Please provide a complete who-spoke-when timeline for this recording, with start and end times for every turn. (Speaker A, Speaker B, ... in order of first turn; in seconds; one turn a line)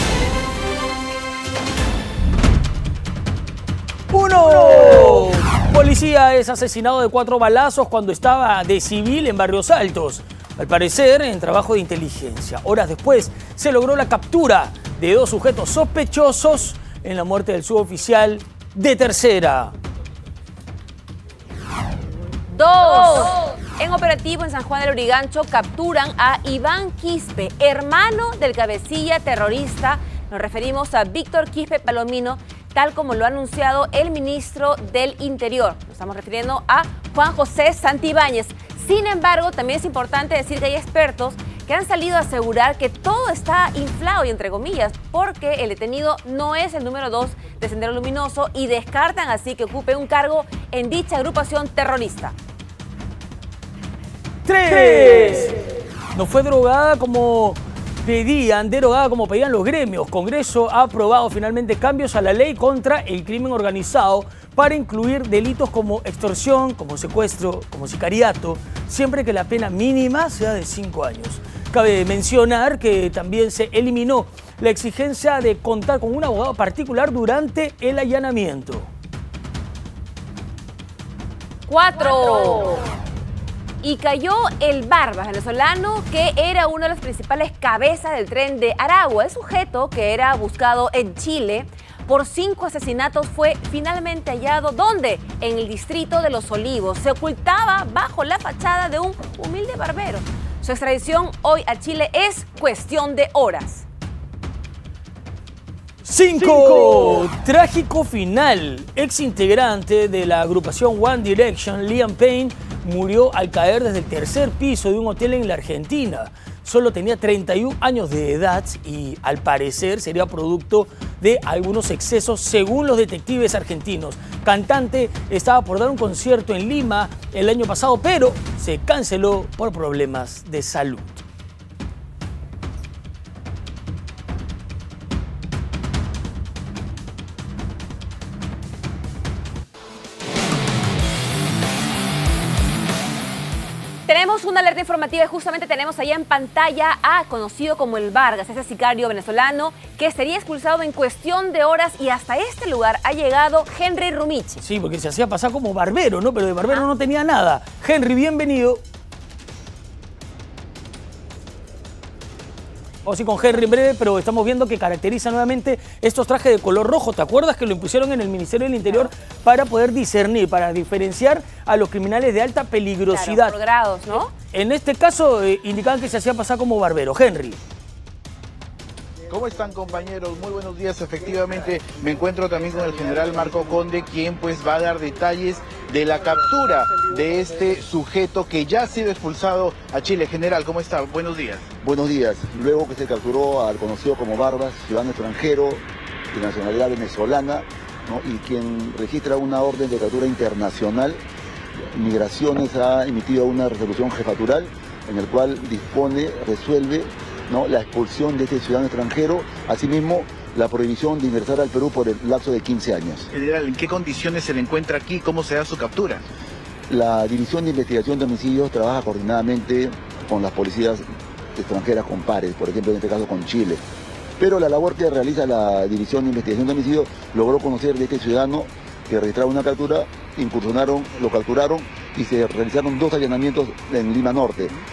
Speaker A: 4.1-19.7
Speaker B: 22.5-52.4
Speaker A: 54.5-55.6
Speaker A: 56.1-78.9
Speaker B: 81.7-82.8
Speaker B: 83.8-103.9
Speaker A: 106.0-131.2
Speaker B: 144.1-154.6
Speaker A: 154.6-158.8
Speaker A: 163.1-173.6
Speaker B: 173.1-174.3
Speaker A: 174.5-177.6
Speaker C: 179.3-191.7
Speaker D: 191.8-201.2
Speaker D: 201.9-213.3
Speaker C: 213.3-216.2
Speaker D: 216.9-221.0
Speaker D: 221.6-223.8
Speaker D: 224.4-234.8